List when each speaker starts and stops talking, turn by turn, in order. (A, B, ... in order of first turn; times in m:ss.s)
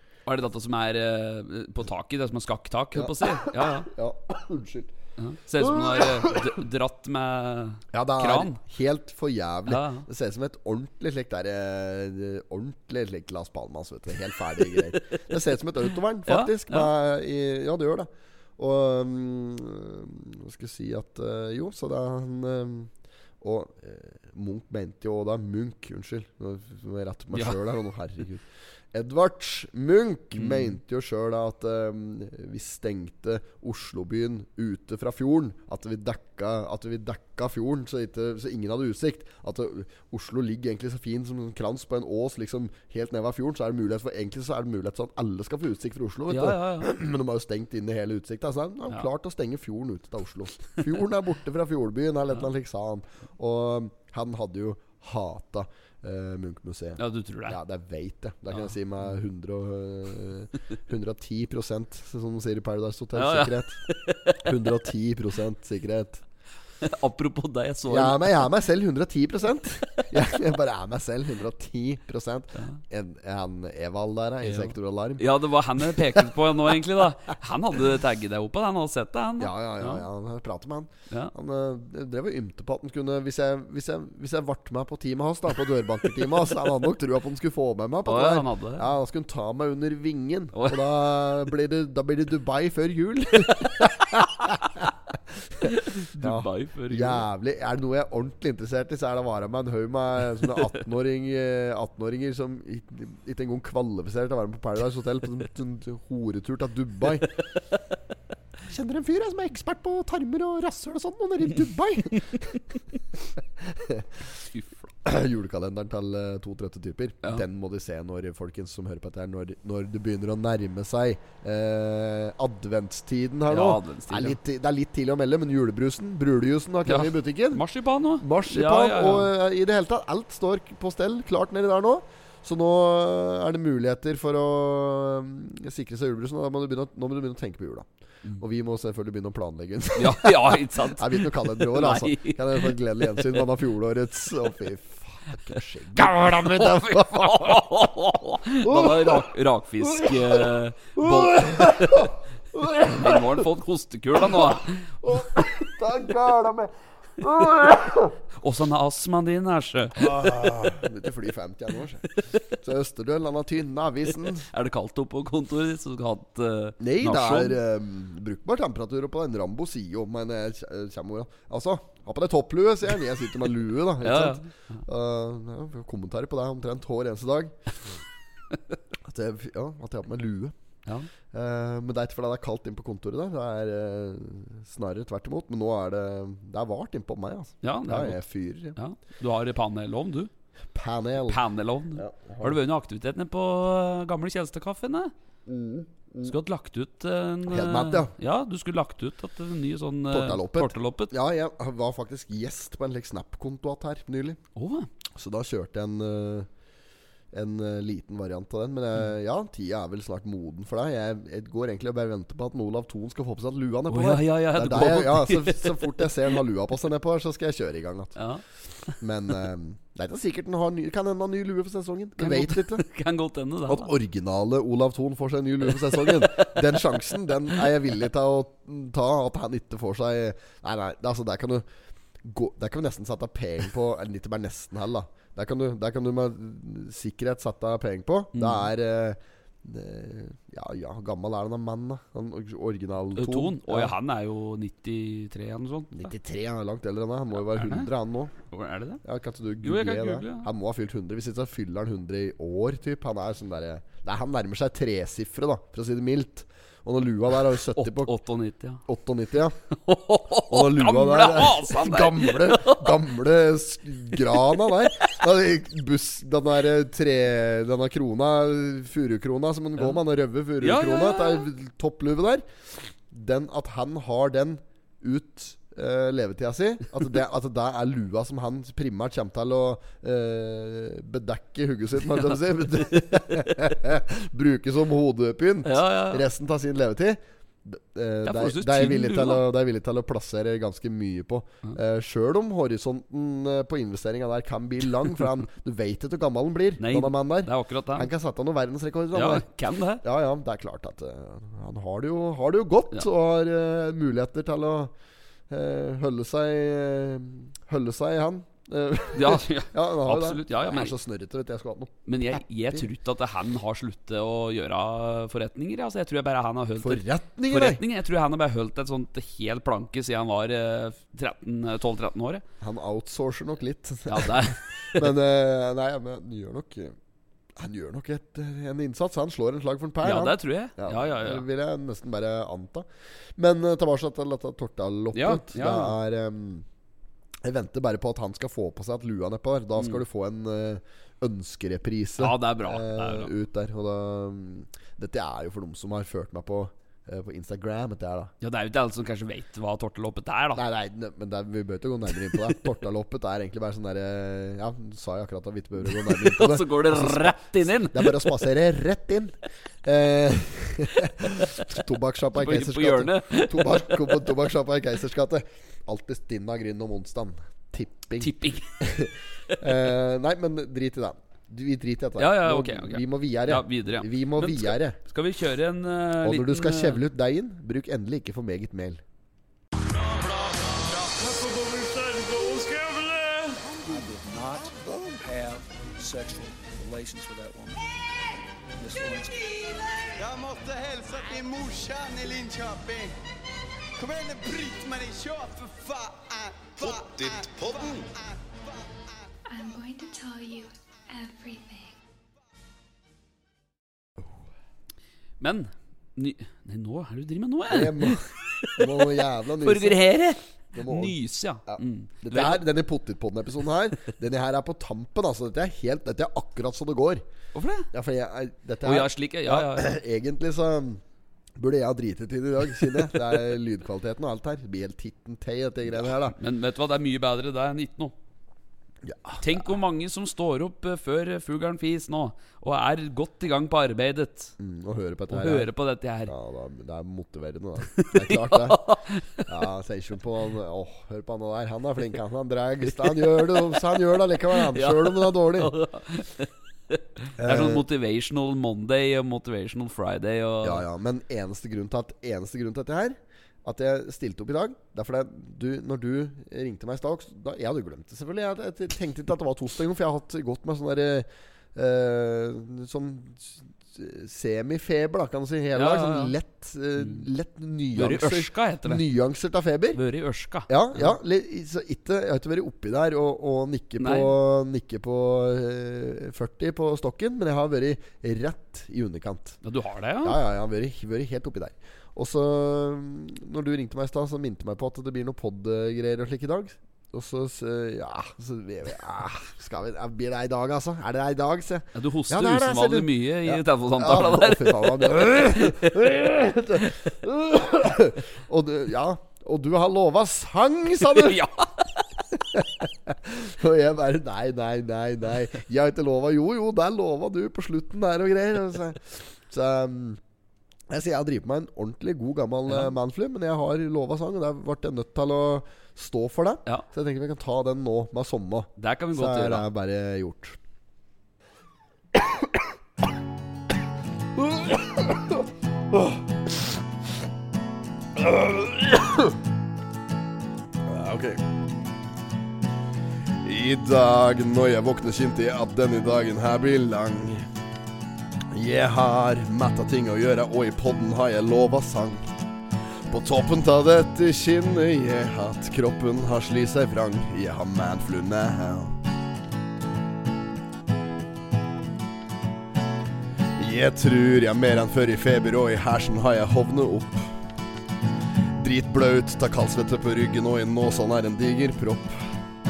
0:00.3-0:03.9 A
0:02.9-0:04.9 B
0:05.2-0:08.6 A
0:05.6-0:06.4 B
0:07.9-1:03.9 B
0:09.7-0:10.1 A
0:14.6-0:15.0 A
0:16.3-0:16.9 A
0:27.3-0:27.6 A
0:30.3-0:30.8 A
0:46.3-0:46.9 A
0:57.0-0:57.6 A
1:03.2-1:04.6 A
1:04.4-1:06.2 B
1:06.8-1:08.4 A
1:07.9-1:15.2 B
1:14.4-1:20.0 A
1:15.8-1:16.2 B
1:19.4-1:34.9 B
1:28.0-1:28.9 A
1:30.5-1:31.1 A
1:35.5-1:47.4 B
1:35.6-1:37.2 A
1:48.7-1:52.6 B
1:53.6-1:54.4 B
1:54.5-1:54.9 A
1:55.0-2:07.6 B
2:03.5-2:04.4 A
2:06.9-2:09.3 A
2:08.2-2:27.7 B
2:20.0-2:23.4 A
2:26.0-2:32.1 A
2:28.6-2:29.3 B
2:29.8-2:33.4 B
2:33.0-2:34.9 A
2:34.3-2:38.1 B
2:38.4-2:40.7 A
2:40.0-2:44.5 B
2:44.4-2:47.6 A
2:46.8-2:57.6 B
2:54.0-2:54.5 A
2:59.0-3:00.5 B
3:01.3-3:08.8 B
3:07.6-3:08.2 A
3:08.8-3:10.3 A
3:10.7-3:11.4 B
3:11.3-3:15.1 A
3:12.0-3:12.5 B
3:15.5-3:16.3 B
3:16.2-3:21.1 A
3:17.5-3:18.1 B
3:20.1-3:24.4 B
3:24.6-3:24.9 A
3:25.2-3:26.5 B
3:27.3-3:38.2 B
3:33.9-3:36.3 A
3:38.2-3:39.0 A
3:39.0-3:42.8 B
3:42.2-3:43.9 A
3:43.7-3:51.7 B
3:45.7-3:46.6 A
3:52.2-4:03.9 B
3:58.3-3:58.7 A
4:03.2-4:06.1 A
4:05.9-4:08.3 B
4:07.4-4:07.9 A
4:08.5-4:09.0 A
4:09.0-4:18.1 B
4:09.6-4:10.5 A
4:17.8-4:18.8 A
4:18.8-4:19.6 B
4:19.7-4:23.1 A
4:20.5-4:59.5 B
4:24.1-4:24.9 A
4:30.6-4:31.5 A
4:45.6-4:46.2 A
4:48.2-4:49.4 A
4:56.8-4:58.1 A
4:59.1-5:00.0 A
5:00.0-5:04.9 B
5:05.5-5:12.9 B
5:09.2-5:10.9 A
5:12.1-5:22.4 A
5:16.8-5:17.8 B
5:22.6-5:27.0 B
5:24.1-5:25.1 A
5:27.6-5:36.6 B
5:30.0-5:31.5 A
5:35.1-5:36.0 A
5:37.4-5:48.3 B
5:42.2-5:43.3 A
5:48.4-5:50.6 A
5:50.6-6:15.0 B
5:55.8-5:58.4 A
6:02.3-6:04.4 A
6:08.2-6:08.8 A
6:12.2-6:17.0 A
6:16.2-6:19.0 B
6:19.8-6:27.9 C
6:28.8-6:30.1 C
6:30.2-6:33.2 D
6:34.0-6:39.0 D
6:39.5-6:42.0 E
6:45.4-6:52.6 A
6:47.7-6:50.1 B
6:50.7-6:57.2 B
6:57.5-6:57.9 A
6:57.9-7:01.0 B
6:58.8-7:00.0 A
7:01.6-7:06.4 B
7:06.0-7:08.1 A
7:09.0-7:09.6 B
7:09.4-7:14.5 A
7:14.6-7:15.7 B
7:15.3-7:16.3 A
7:16.3-7:25.8 B
7:18.0-7:19.5 A
7:22.9-7:23.8 A
7:24.5-7:30.8 A
7:27.4-7:27.8 B
7:30.6-7:50.0 B
7:45.8-7:46.3 A
7:48.0-7:49.0 A
7:49.9-7:51.1 A
7:50.7-7:59.6 B
7:54.0-7:54.3 A
7:59.6-8:00.4 A
8:00.2-8:21.4 B
8:12.0-8:16.1 A
8:21.0-8:22.1 A
8:22.3-8:30.2 B
8:30.9-8:40.6 B
8:38.8-8:39.6 A
8:44.4-8:46.2 B
8:48.2-8:49.4 B
8:50.9-8:51.4 B
8:53.4-8:57.5 B
8:58.5-9:02.5 B
9:03.1-9:09.0 B
9:13.6-9:17.3 B
9:18.6-9:22.3 B